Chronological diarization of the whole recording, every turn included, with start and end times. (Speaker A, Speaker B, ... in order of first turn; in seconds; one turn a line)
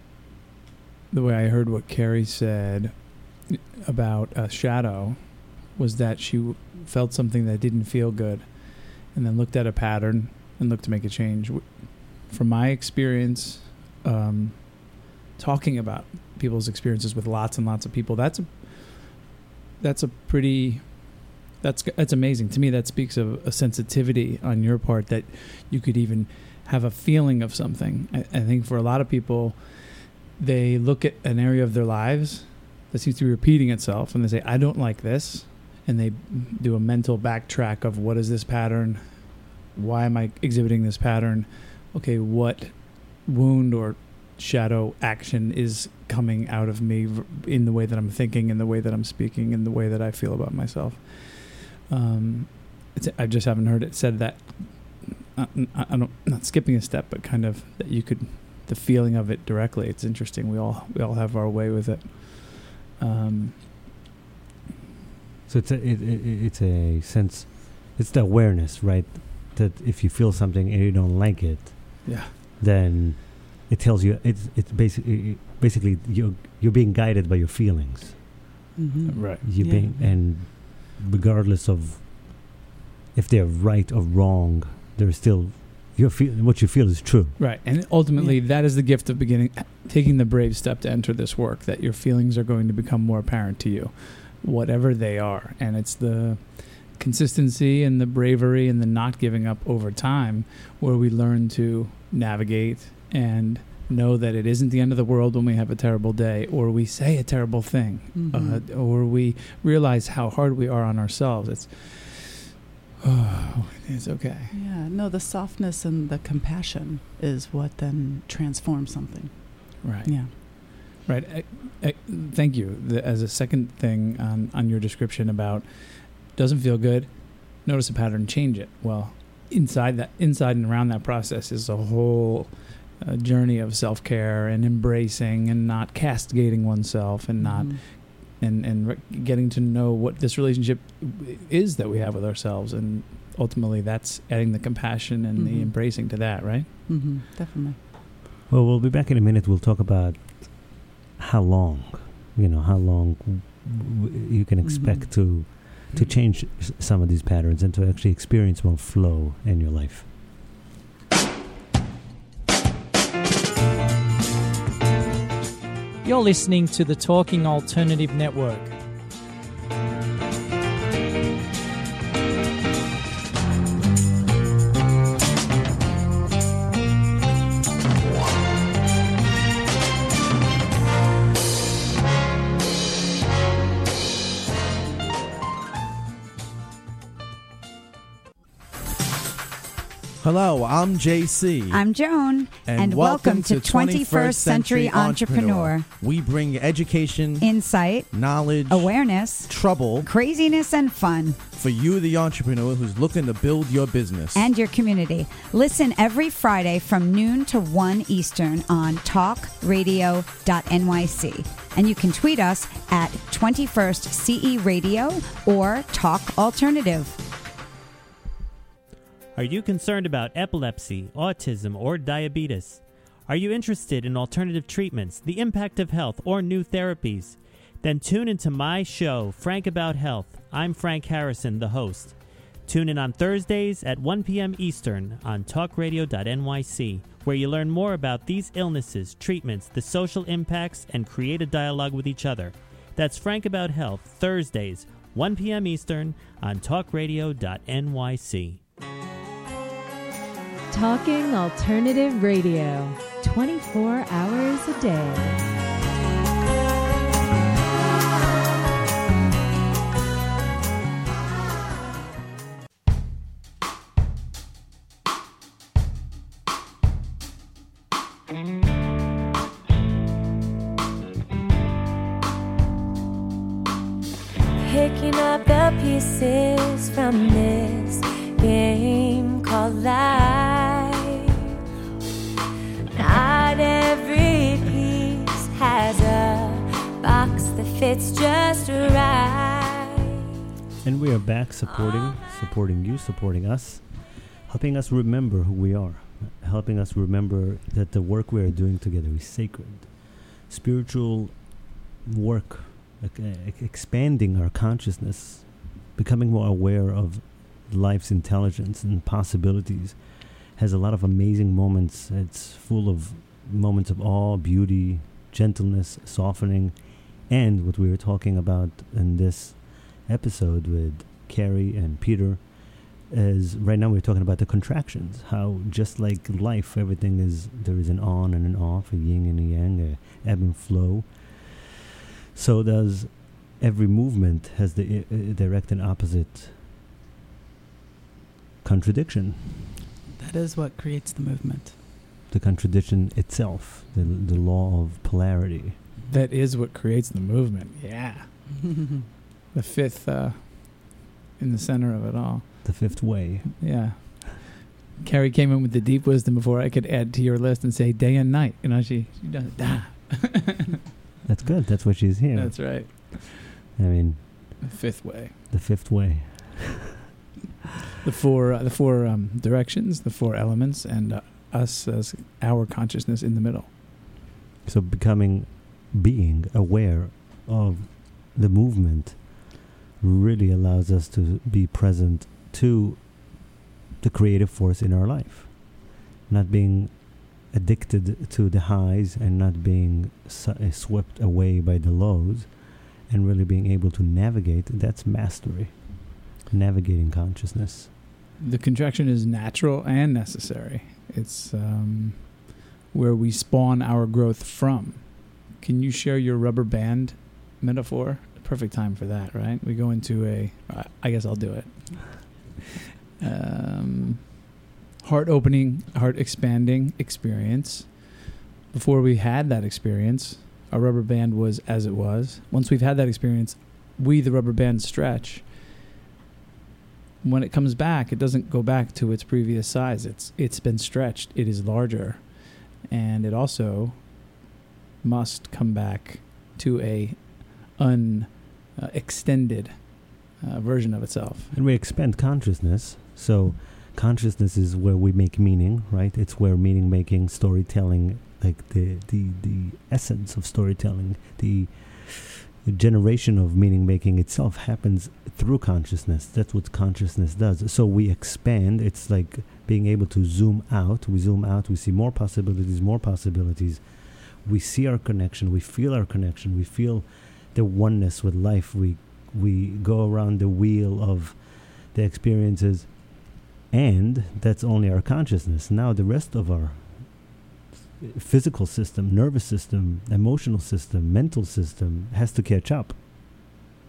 Speaker A: 1.1-63.9
Speaker B: 65.5-78.3
Speaker A: 72.0-72.3
Speaker C: 78.8-80.1
Speaker A: 79.1-79.4
Speaker B: 79.4-82.5
Speaker B: 83.1-87.4
Speaker A: 87.4-114.5
Speaker C: 88.2-88.4
Speaker C: 108.1-108.6
Speaker C: 114.5-120.3
Speaker A: 119.8-146.7
Speaker C: 137.4-137.8
Speaker C: 145.4-145.8
Speaker C: 146.9-147.8
Speaker B: 148.5-160.1
Speaker C: 154.6-155.4
Speaker D: 166.0-168.8
Speaker E: 190.2-191.8
Speaker F: 191.7-195.9
Speaker E: 192.6-200.1
Speaker F: 197.4-198.1
Speaker F: 198.7-201.4
Speaker E: 201.5-204.5
Speaker F: 204.3-217.2
Speaker G: 219.4-248.6
Speaker H: 250.7-255.4
Speaker I: 274.6-281.5
Speaker I: 282.9-290.2
Speaker B: 290.8-331.6
Speaker B: 332.3-336.6
Speaker B: 338.6-339.6
Speaker C: 340.2-341.8
Speaker B: 342.3-345.8
Speaker A: 346.1-348.6
Speaker C: 348.8-349.0
Speaker A: 349.5-360.8
Speaker B: 352.6-354.0
Speaker B: 361.2-363.1
Speaker A: 361.4-361.8
Speaker A: 362.3-363.6
Speaker B: 363.8-364.6
Speaker A: 364.6-365.4
Speaker B: 365.5-366.8
Speaker A: 368.0-373.7
Speaker B: 374.6-397.9
Speaker A: 398.4-412.6
Speaker A: 413.2-425.5
Speaker A: 427.2-434.4
Speaker A: 435.0-441.5
Speaker B: 441.5-477.4
Speaker B: 478.0-483.0